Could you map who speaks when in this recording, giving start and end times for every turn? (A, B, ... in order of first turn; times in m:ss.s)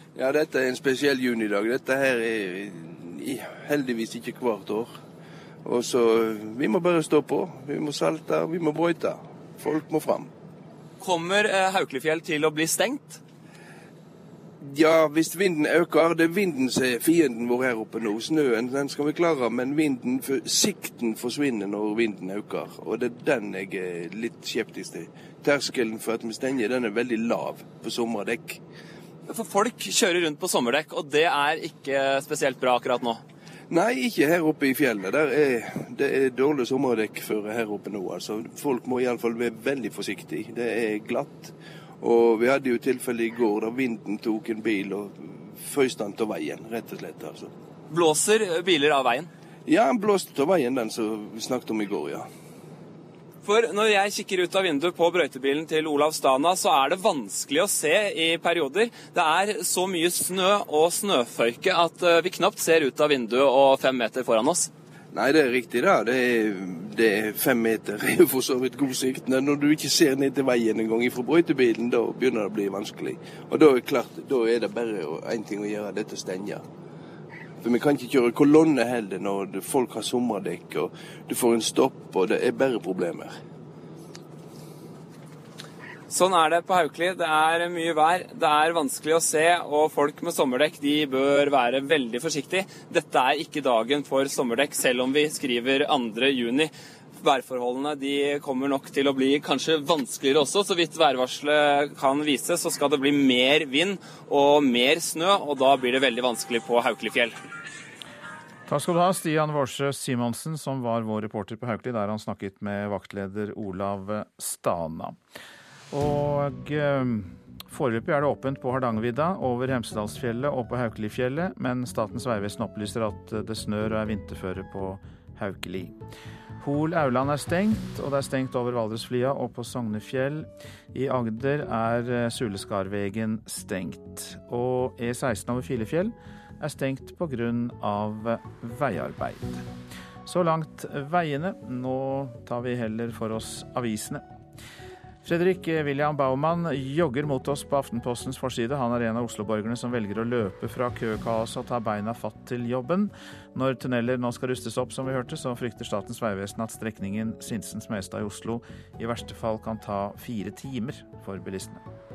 0:00.1-0:05.0 A
0:05.6-0:10.3 A
0:11.0-0:13.2 B
0:14.6-0:28.6 A
0:29.3-0:33.2 B
0:33.7-0:47.5 A
0:47.9-0:49.3 B
0:49.6-0:52.3 A
0:53.4-1:04.7 B
1:05.1-1:16.6 A
1:17.6-1:23.3 A
1:26.1-1:47.4 B
1:48.7-1:55.2 C
1:55.9-2:06.0 C
2:06.6-2:19.7 C
2:20.2-2:24.2 C
2:25.2-2:41.8 C